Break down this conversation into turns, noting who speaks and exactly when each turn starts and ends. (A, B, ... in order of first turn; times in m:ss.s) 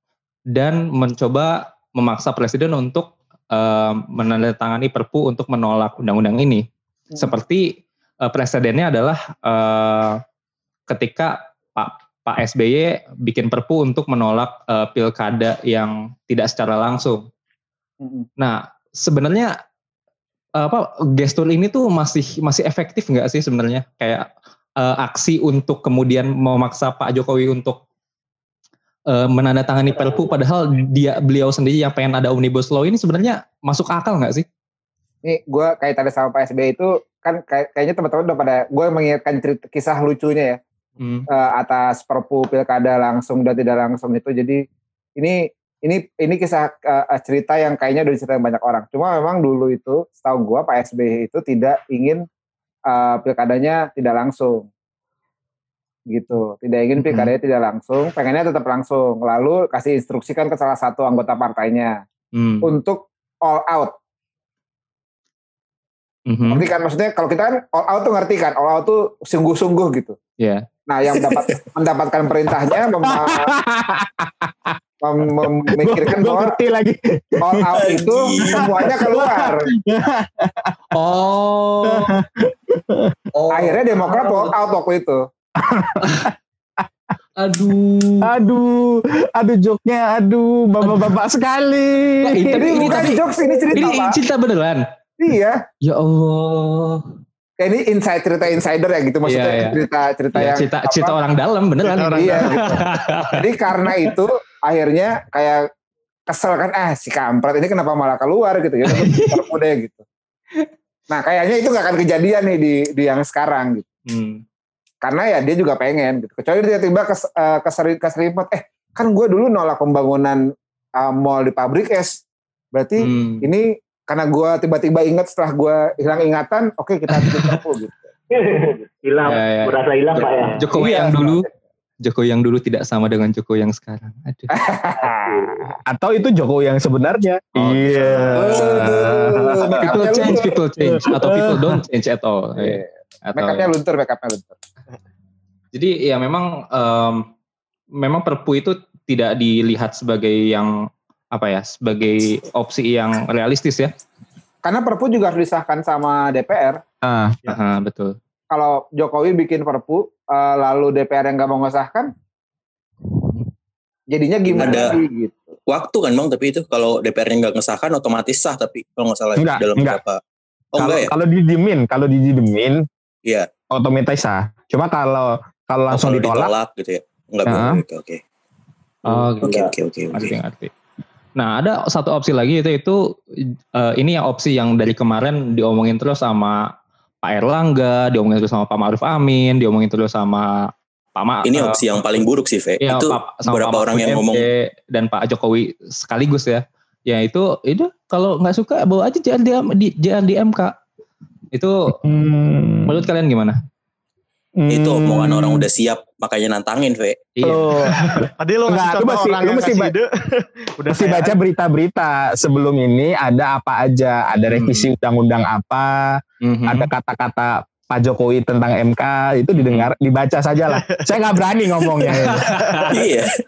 0:00.5-0:06.6 A
0:07.2-0:10.2 A
0:10.9-0:17.2 A
0:18.0-0:18.3 B
0:18.4-0:19.5 A
0:20.6-0:24.3 A
0:24.8-0:27.8 A
0:29.1-0:34.4 A
0:35.2-0:40.6 B
0:41.0-0:41.3 A
0:41.3-0:44.6 B
0:45.2-0:52.2 B
0:52.9-0:54.7 B
0:56.1-1:02.0 B
0:57.0-0:57.3 A
1:02.3-1:02.7 A
1:02.6-1:03.9 B
1:06.3-1:06.6 A
1:06.5-1:10.2 B
1:10.9-1:13.5 B
1:13.1-1:14.8 C
1:15.0-1:16.5 B
1:15.4-1:17.8 C
1:17.4-1:19.6 B
1:17.8-1:18.7 D
1:18.4-1:20.7 C
1:20.9-1:22.1 A
1:21.8-1:23.8 C
1:23.5-1:25.2 B
1:25.6-1:26.3 C
1:27.4-1:28.3 A
1:28.2-1:33.2 C
1:30.8-1:31.1 A
1:32.2-1:33.2 A
1:32.5-1:34.2 B
1:33.7-1:34.8 A
1:35.2-1:35.6 B
1:35.8-1:37.1 A
1:37.6-1:41.2 B
1:39.2-1:39.8 A
1:40.3-1:44.0 A
1:41.8-1:42.8 E
1:42.1-1:45.6 B
1:46.3-1:50.0 B
1:48.9-1:49.4 A
1:51.1-1:53.8 B
1:54.1-1:54.4 A
1:55.0-2:00.4 B
2:01.0-2:02.2 B
2:02.7-2:08.1 B
2:03.0-2:03.4 A
2:07.1-2:07.6 A
2:08.3-2:10.7 F
2:09.2-2:11.4 A
2:10.9-2:11.4 B
2:12.0-2:14.5 A
2:14.5-2:15.8 B
2:15.1-2:15.6 F
2:15.9-2:21.8 C
2:17.6-2:18.4 A
2:18.3-2:20.5 B
2:19.8-2:23.7 A
2:22.6-2:24.5 B
2:25.7-2:27.3 A
2:28.0-2:30.7 A
2:31.3-2:33.9 A
2:34.6-2:36.8 B
2:37.0-2:37.4 C
2:37.5-2:38.2 A
2:38.5-2:42.1 B
2:44.1-2:45.6 B
2:44.6-2:44.9 D
2:45.7-2:50.2 D
2:49.4-2:50.0 C
2:50.7-2:51.1 D
2:50.8-2:52.8 C
2:53.7-2:56.5 C
2:55.9-2:58.2 D
2:57.4-2:57.8 C
2:59.0-2:59.5 A
2:59.0-2:59.7 F
2:59.4-3:00.3 D
3:00.1-3:00.7 A
3:01.4-3:03.0 A
3:03.8-3:06.6 A
3:07.2-3:11.8 A
3:11.4-3:14.4 D
3:12.8-3:20.7 A
3:21.5-3:21.9 A
3:22.0-3:23.0 C
3:22.8-3:23.6 A
3:24.6-3:25.7 C
3:24.7-3:27.2 D
3:27.4-3:28.2 A
3:27.4-3:29.9 C
3:28.4-3:31.3 E
3:30.9-3:36.0 C
3:34.5-3:34.9 A
3:36.4-3:36.9 A
3:36.7-3:42.5 C
3:39.6-3:39.9 A
3:40.7-3:41.0 E
3:42.1-3:42.9 A
3:42.9-3:43.4 D